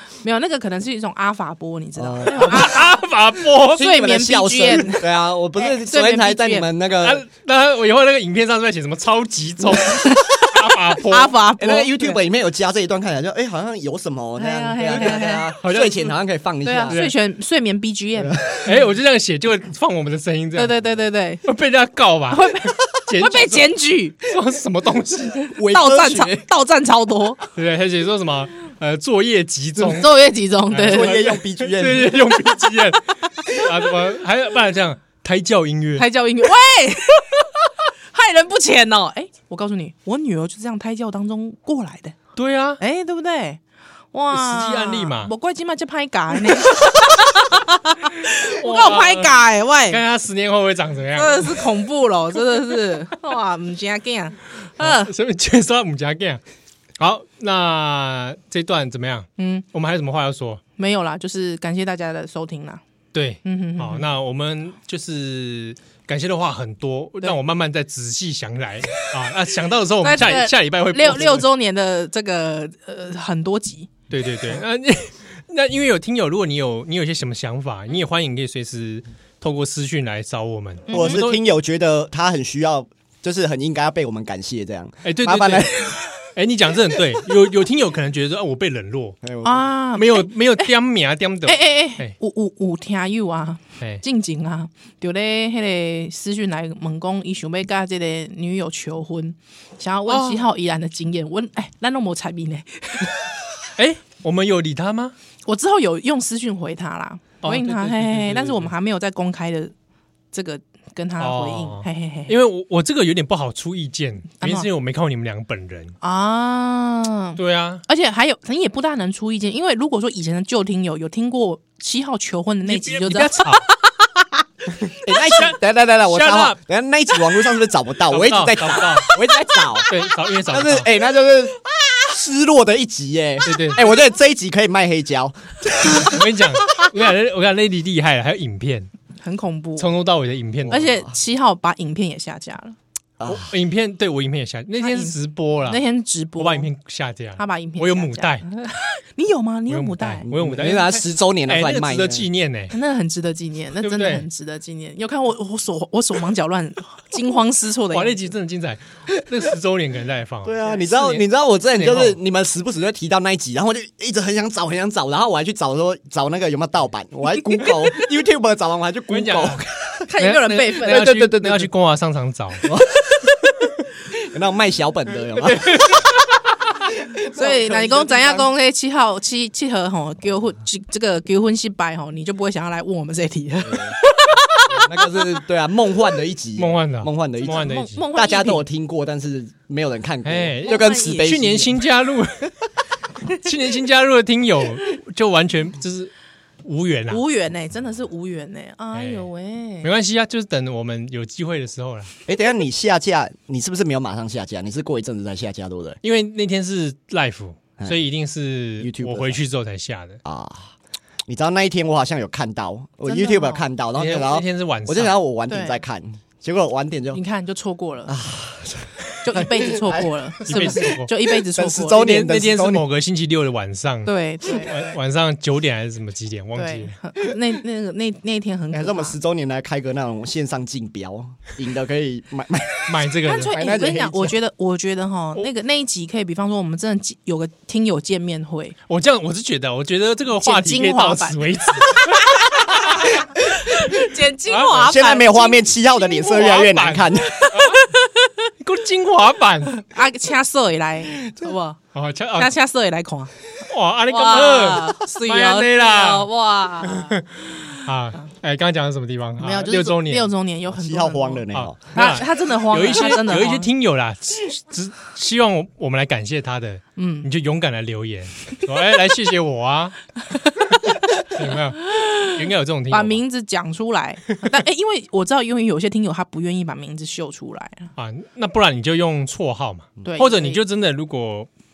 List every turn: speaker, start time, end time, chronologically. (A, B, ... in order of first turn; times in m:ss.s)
0:00.2-0:03.0 A
0:02.0-0:02.7 B
0:02.3-0:03.8 C
0:03.7-0:06.7 A
0:03.7-0:07.2 B
0:07.0-0:11.4 C
0:09.8-0:12.2 A
0:11.6-0:17.0 B
0:14.4-0:15.5 A
0:15.6-0:16.1 C
0:16.6-0:18.6 A
0:16.9-0:17.1 C
0:18.2-0:18.7 B
0:18.6-0:20.8 C
0:20.5-0:21.4 A
0:21.4-0:25.4 C
0:22.3-0:24.3 A
0:25.4-0:27.4 A
0:25.5-0:26.4 B
0:27.5-0:30.1 C
0:29.8-0:31.2 A
0:30.7-0:36.0 C
0:30.8-0:32.4 B
0:36.0-0:42.2 A
0:42.4-0:42.8 C
0:42.8-0:43.6 A
0:44.1-0:50.0 A
0:44.3-0:45.3 C
0:48.3-0:51.7 C
0:51.1-0:55.1 A
0:52.5-0:52.9 C
0:54.8-0:56.4 C
0:57.0-1:00.6 C
0:59.4-0:59.6 A
1:00.8-1:02.8 A
1:03.1-1:11.4 C
1:03.4-1:04.1 A
1:10.0-1:13.9 A
1:14.1-1:21.4 C
1:20.9-1:21.2 A
1:20.9-1:26.1 B
1:25.0-1:29.2 C
1:29.2-1:29.7 B
1:29.4-1:30.7 A
1:29.9-1:32.1 C
1:31.4-1:43.2 A
1:40.1-1:40.4 C
1:43.8-1:45.1 C
1:45.4-1:49.7 A
1:47.4-1:48.7 C
1:50.3-1:52.3 A
1:51.2-1:56.0 C
1:54.4-1:54.7 A
1:56.0-2:04.3 A
1:57.4-1:57.8 C
2:02.6-2:03.6 C
2:04.8-2:06.6 C
2:05.0-2:09.9 B
2:08.1-2:09.1 C
2:09.9-2:10.9 C
2:10.5-2:16.9 B
2:13.4-2:13.9 C
2:16.0-2:18.9 C
2:19.2-2:19.9 A
2:19.8-2:20.9 C
2:20.6-2:21.1 B
2:20.7-2:22.8 A
2:23.2-2:23.5 B
2:23.3-2:25.8 C
2:24.8-2:26.7 A
2:26.4-2:28.4 C
2:27.4-2:30.3 A
2:29.7-2:32.7 C
2:30.3-2:32.3 B
2:32.7-2:38.2 A
2:33.8-2:34.3 C
2:37.9-2:41.2 C
2:40.4-2:50.0 B
2:41.7-2:42.2 C
2:49.1-2:52.7 C
2:50.0-2:51.1 A
2:50.8-2:51.7 B
2:52.6-2:53.1 B
2:54.1-2:56.1 B
2:55.4-2:56.1 C
2:56.9-2:58.5 B
2:57.3-3:05.3 A
3:03.6-3:04.0 B
3:04.7-3:11.8 B
3:06.6-3:08.0 C
3:07.4-3:08.6 A
3:10.2-3:12.5 C
3:10.7-3:11.3 A
3:13.3-3:16.1 C
3:16.6-3:17.2 C
3:17.1-3:19.9 A
3:18.9-3:19.3 C
3:19.8-3:22.1 C
3:22.3-3:26.0 B
3:26.0-3:30.2 C
3:28.8-3:29.4 B
3:30.2-3:30.7 B
3:31.3-3:37.2 B
3:33.0-3:33.6 A
3:34.0-3:35.1 C
3:35.5-3:35.8 A
3:37.1-3:38.1 A
3:38.1-3:42.8 B
3:39.2-3:42.1 A
3:40.4-3:41.1 C
3:41.9-3:46.9 C
3:44.0-3:44.8 A
3:46.5-3:49.1 A
3:48.7-3:54.3 B
3:52.9-3:53.6 C
3:53.2-3:58.8 A
3:58.9-4:03.1 C
4:00.4-4:05.6 A
4:04.5-4:04.9 C
4:04.7-4:07.4 B
4:06.2-4:07.9 C
4:07.3-4:08.3 A
4:08.6-4:09.8 C
4:09.8-4:11.8 A
4:11.9-4:12.5 C
4:12.4-4:13.3 A
4:13.7-4:16.3 C
4:14.1-4:17.2 A
4:16.8-4:20.3 C
4:19.4-4:23.7 A
4:20.7-4:21.8 B
4:21.5-4:30.1 C
4:27.0-4:27.3 A
4:30.3-4:37.9 A
4:30.7-4:33.2 C
4:38.0-4:41.5 C
4:40.0-4:40.6 A